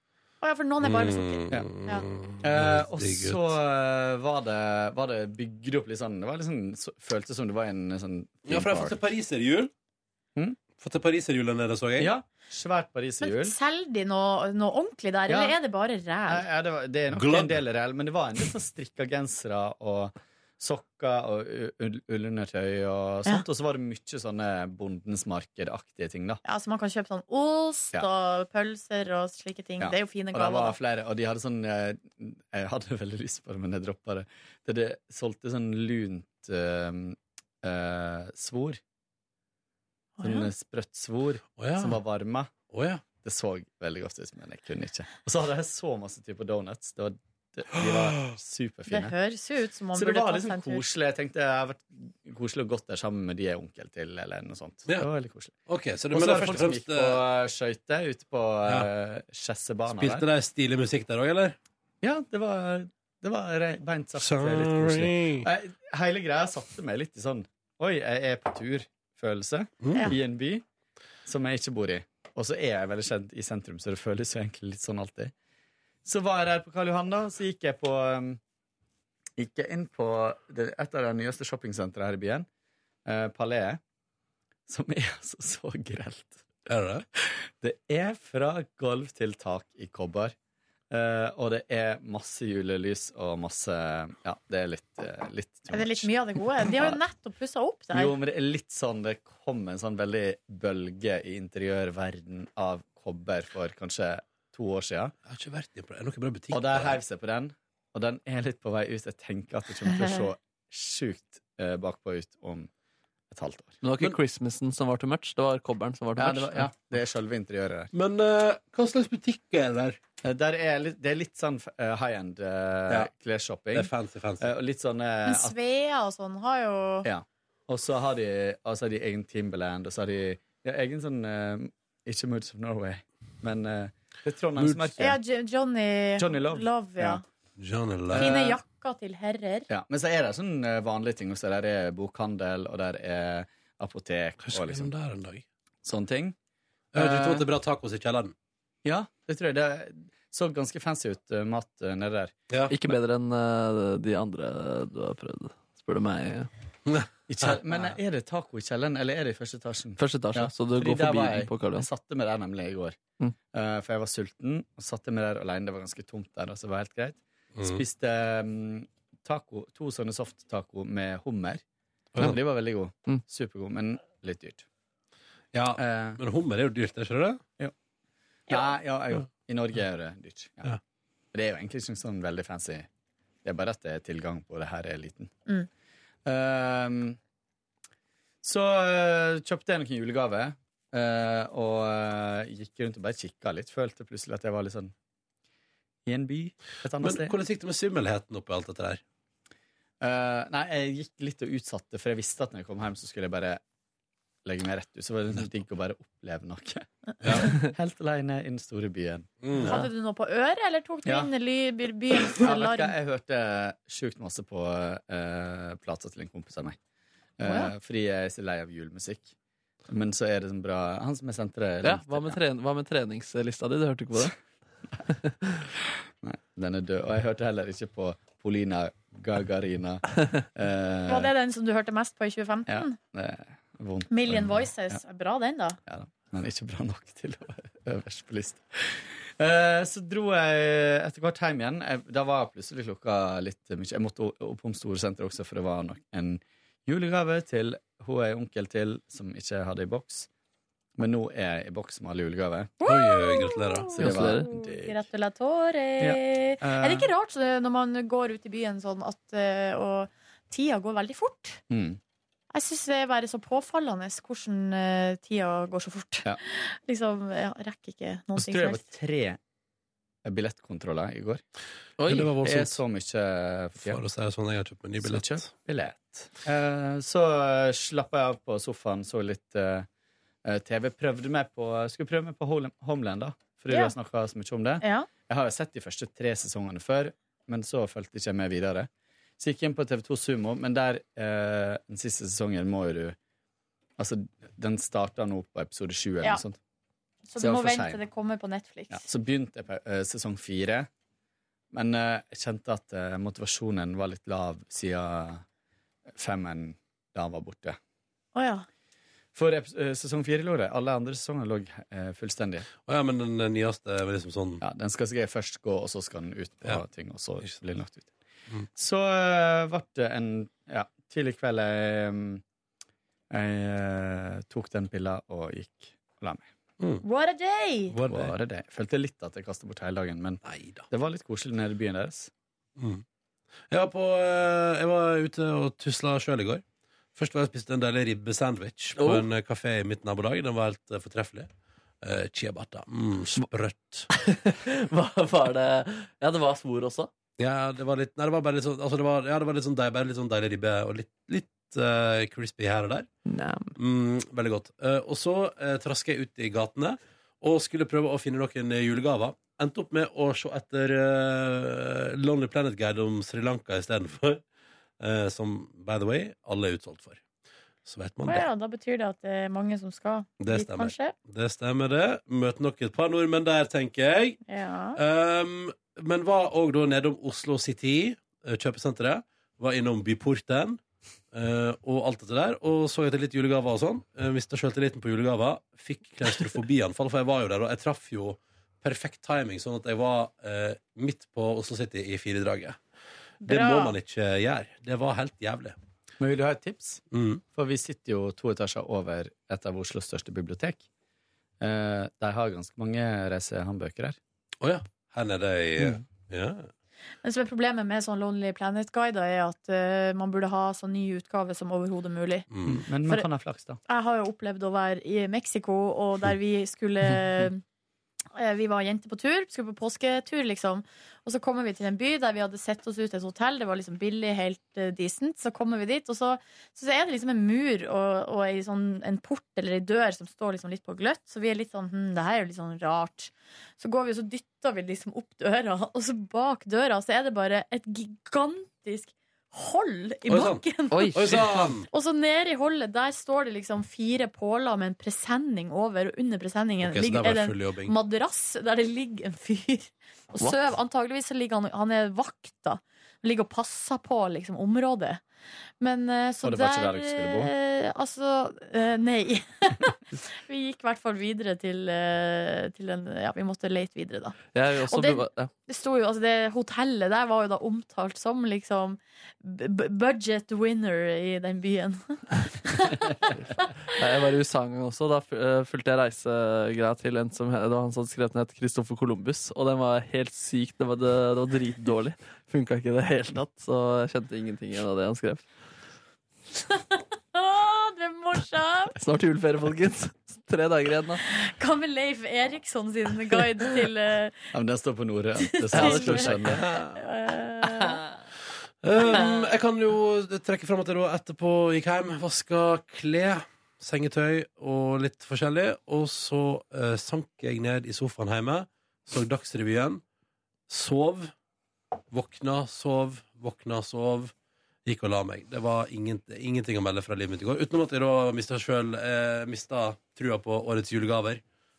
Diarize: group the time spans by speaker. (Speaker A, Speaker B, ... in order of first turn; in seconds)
Speaker A: 0.4-2.0, 13.2-16.5, 26.4-30.8, 40.2-40.5, 48.9-50.9, 95.7-98.1, 125.2-127.1, 135.0-137.2, 138.2-139.7, 209.6-212.9, 217.4-217.7, 231.1-233.0, 234.1-235.8, 252.8-261.6, 262.5-268.9, 283.7-283.9, 284.8-285.1, 297.3-299.0, 308.3-308.6, 327.0-327.9, 368.2-371.1, 374.5-375.0, 393.4-393.9, 407.2-412.5, 413.9-417.6, 418.3-455.2, 455.8-473.3, 486.7-488.9, 491.2-494.4, 495.5-498.0, 499.0-499.3
Speaker B: 0.8-3.6, 8.4-9.7, 10.8-12.1, 17.1-17.6, 41.6-42.0, 42.7-43.0, 47.8-48.3, 55.7-57.2, 59.9-61.6, 64.2-65.5, 69.8-70.1, 86.7-87.0, 105.3-107.0, 117.9-120.0, 123.7-124.5, 134.6-134.9, 137.6-138.3, 144.4-145.4, 146.9-148.3, 156.9-157.9, 167.6-167.8, 175.5-177.4, 197.0-199.0, 207.2-207.5, 209.4-209.8, 252.8-254.0, 272.0-272.8, 273.8-275.5, 312.9-314.6, 327.9-328.3, 330.4-330.9, 332.8-333.0, 333.7-336.6, 337.1-341.5, 342.0-344.1, 347.4-353.1, 353.8-364.4, 365.0-367.2, 367.8-368.5, 370.4-374.4, 374.9-392.8, 393.4-395.8, 397.1-397.4, 404.6-406.7, 412.5-412.8, 440.3-441.9, 446.8-447.9, 496.3-497.0, 498.8-510.0, 510.7-511.3, 512.1-514.3, 514.8-521.4
Speaker C: 2.4-9.0, 12.0-13.6, 15.3-15.6, 16.3-26.4, 29.8-38.8, 40.2-42.5, 43.2-49.1, 49.9-55.5, 56.1-60.3, 62.0-70.6, 71.2-75.3, 76.0-78.4, 79.4-82.5, 83.0-83.8, 84.7-86.4, 87.1-90.3, 90.9-97.0, 97.9-105.1, 106.5-112.7, 113.3-114.1, 116.2-117.9, 120.2-125.5, 127.0-135.2, 136.2-137.2, 138.1-138.6, 139.7-144.9, 145.8-146.3, 147.0-147.4, 148.8-152.3, 157.3-163.0, 163.5-171.6, 172.2-174.7, 175.8-176.2, 178.5-180.8, 181.3-182.9, 183.4-185.4, 186.2-187.2, 188.4-194.9, 196.1-197.3, 200.0-203.6, 204.4-209.8, 211.1-211.3, 212.3-216.8, 217.4-219.3, 219.9-222.4, 226.2-231.3, 232.7-235.0, 235.8-250.3, 251.0-252.7, 253.9-255.0, 256.0-257.1, 261.7-262.0, 268.4-269.4, 270.2-271.4, 272.4-274.0, 275.0-279.9, 280.4-293.2, 294.0-296.6, 297.4-298.0, 298.9-300.9, 301.7-305.4, 306.1-307.8, 309.3-312.7, 314.6-318.1, 318.7-322.4, 323.3-326.5, 328.0-332.3, 396.2-400.8, 401.6-404.2, 412.7-413.8, 456.4-457.5, 494.5-496.6
Speaker D: 113.8-116.7, 152.7-156.5, 160.0-161.9, 221.8-224.3, 225.2-225.5, 254.0-254.4, 272.0-272.3, 339.0-339.2, 344.1-347.1, 353.2-353.8, 440.9-441.7, 464.5-465.5, 473.9-485.4, 489.0-491.2, 495.7-496.6